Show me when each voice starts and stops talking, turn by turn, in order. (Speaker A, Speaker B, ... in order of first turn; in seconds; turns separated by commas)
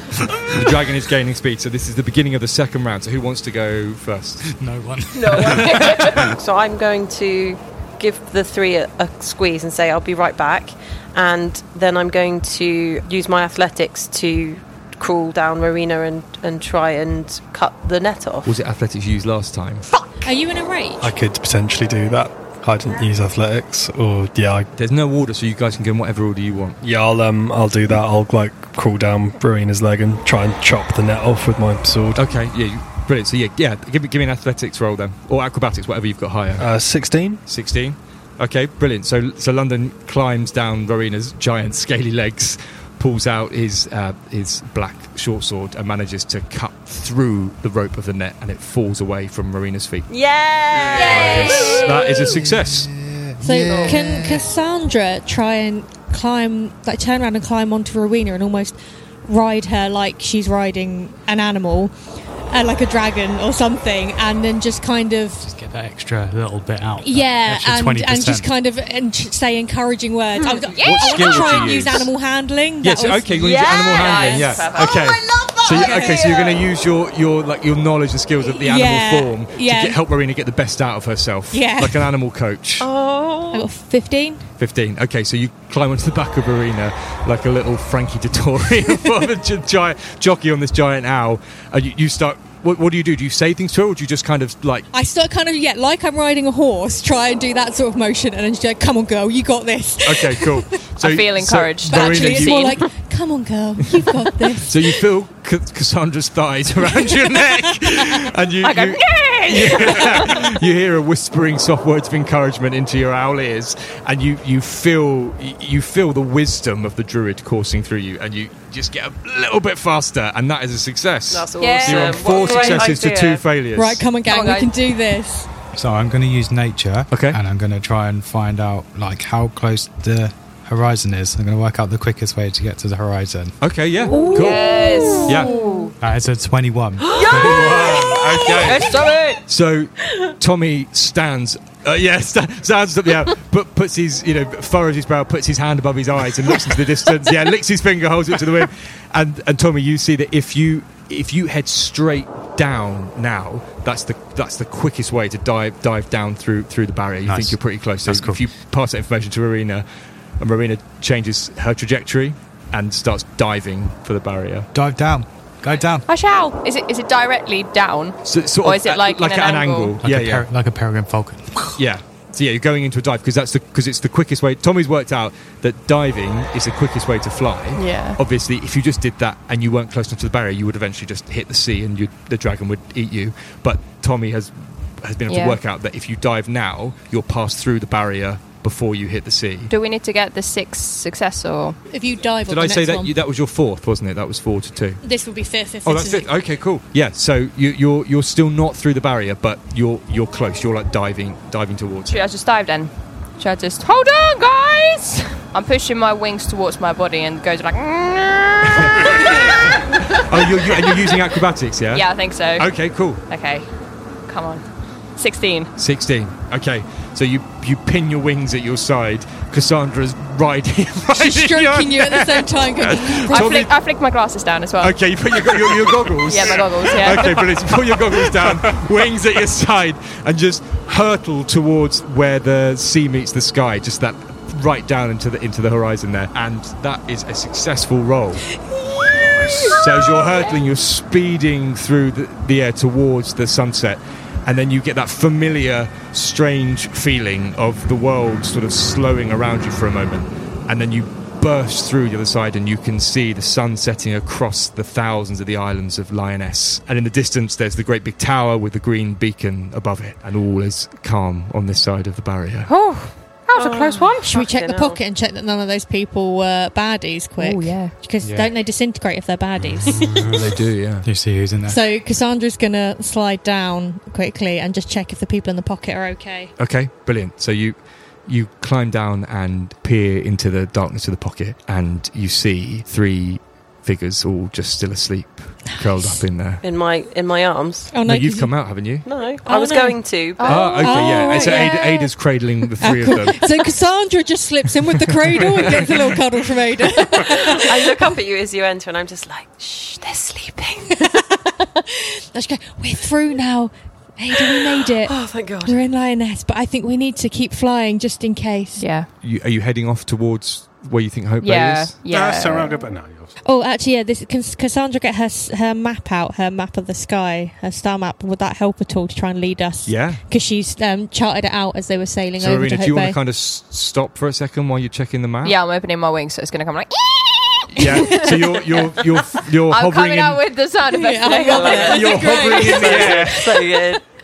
Speaker A: 0.3-4.5, Speaker B: 4.4-5.8, Speaker C: 5.1-18.5, Speaker D: 5.6-6.0, Speaker A: 18.4-19.9, Speaker E: 20.2-21.1, Speaker F: 21.0-24.7, Speaker A: 24.7-26.8, Speaker F: 26.8-32.2, Speaker A: 32.1-36.7, Speaker F: 36.6-37.4, Speaker A: 37.4-50.1, Speaker C: 50.1-52.2, Speaker D: 51.0-51.8, Speaker A: 51.0-52.9, Speaker B: 51.1-51.7, Speaker E: 51.1-51.7, Speaker B: 52.2-54.5, Speaker E: 53.4-61.9, Speaker C: 53.7-54.0, Speaker E: 62.5-65.5, Speaker B: 65.5-68.5, Speaker E: 67.0-73.3, Speaker D: 70.5-71.8, Speaker A: 70.8-72.1, Speaker A: 72.8-82.9, Speaker C: 73.3-76.3, Speaker D: 73.8-75.1, Speaker E: 75.4-76.3, Speaker D: 76.0-76.6, Speaker E: 78.4-80.0, Speaker E: 81.5-82.0, Speaker C: 82.8-83.7, Speaker E: 83.5-84.5, Speaker A: 84.6-94.9, Speaker E: 94.9-100.8, Speaker A: 100.0-102.7, Speaker D: 101.0-102.8, Speaker E: 101.9-105.0, Speaker A: 104.6-124.0, Speaker E: 107.0-107.5, Speaker D: 108.6-110.6, Speaker C: 121.3-123.4, Speaker D: 121.6-122.9, Speaker E: 123.8-125.5, Speaker D: 124.2-124.7, Speaker B: 125.7-133.5, Speaker A: 127.1-127.4, Speaker A: 133.6-135.5, Speaker D: 134.1-135.9, Speaker C: 134.1-135.9, Speaker B: 136.0-137.8, Speaker C: 137.1-139.4, Speaker A: 137.3-159.8, Speaker D: 137.4-137.9, Speaker D: 138.5-139.4, Speaker B: 157.2-158.4, Speaker A: 160.4-164.7, Speaker B: 164.7-166.1, Speaker D: 166.1-169.9, Speaker A: 168.2-170.5, Speaker B: 170.0-171.8, Speaker A: 171.7-189.7, Speaker D: 177.7-178.2, Speaker D: 185.3-185.6, Speaker D: 189.7-191.8, Speaker E: 191.9-193.1, Speaker A: 192.5-195.0, Speaker E: 195.0-196.3, Speaker A: 195.8-202.3, Speaker D: 202.1-211.2, Speaker A: 208.6-209.1, Speaker A: 210.1-213.2, Speaker D: 211.9-213.7, Speaker D: 214.2-214.6, Speaker D: 215.1-215.7, Speaker A: 215.8-223.7, Speaker E: 221.1-223.5, Speaker D: 223.3-225.0, Speaker A: 224.8-238.4, Speaker G: 225.7-227.2, Speaker D: 226.2-227.5, Speaker E: 238.9-239.2, Speaker A: 239.6-262.7, Speaker D: 239.7-240.2, Speaker D: 262.7-264.2, Speaker C: 263.5-265.0, Speaker E: 263.9-270.3, Speaker D: 267.4-267.9, Speaker B: 268.2-268.5, Speaker A: 270.2-271.1, Speaker B: 271.0-271.8, Speaker E: 271.6-276.5, Speaker A: 276.6-286.6, Speaker C: 286.6-287.9, Speaker E: 287.9-288.5, Speaker A: 288.0-289.1, Speaker C: 289.0-290.7, Speaker E: 289.4-290.0, Speaker D: 290.4-291.8, Speaker A: 290.4-293.4, Speaker E: 290.7-298.0, Speaker A: 295.4-295.8, Speaker C: 297.2-301.1, Speaker E: 301.0-308.8, Speaker C: 304.5-305.8, Speaker D: 308.8-309.1, Speaker A: 309.2-311.9, Speaker D: 311.4-312.9, Speaker G: 312.1-313.4, Speaker E: 313.4-323.2, Speaker A: 319.8-320.2, Speaker A: 322.4-325.6, Speaker D: 325.4-333.3, Speaker A: 327.7-330.4, Speaker E: 327.9-328.3, Speaker E: 330.9-333.3, Speaker C: 331.3-334.0, Speaker A: 331.7-333.6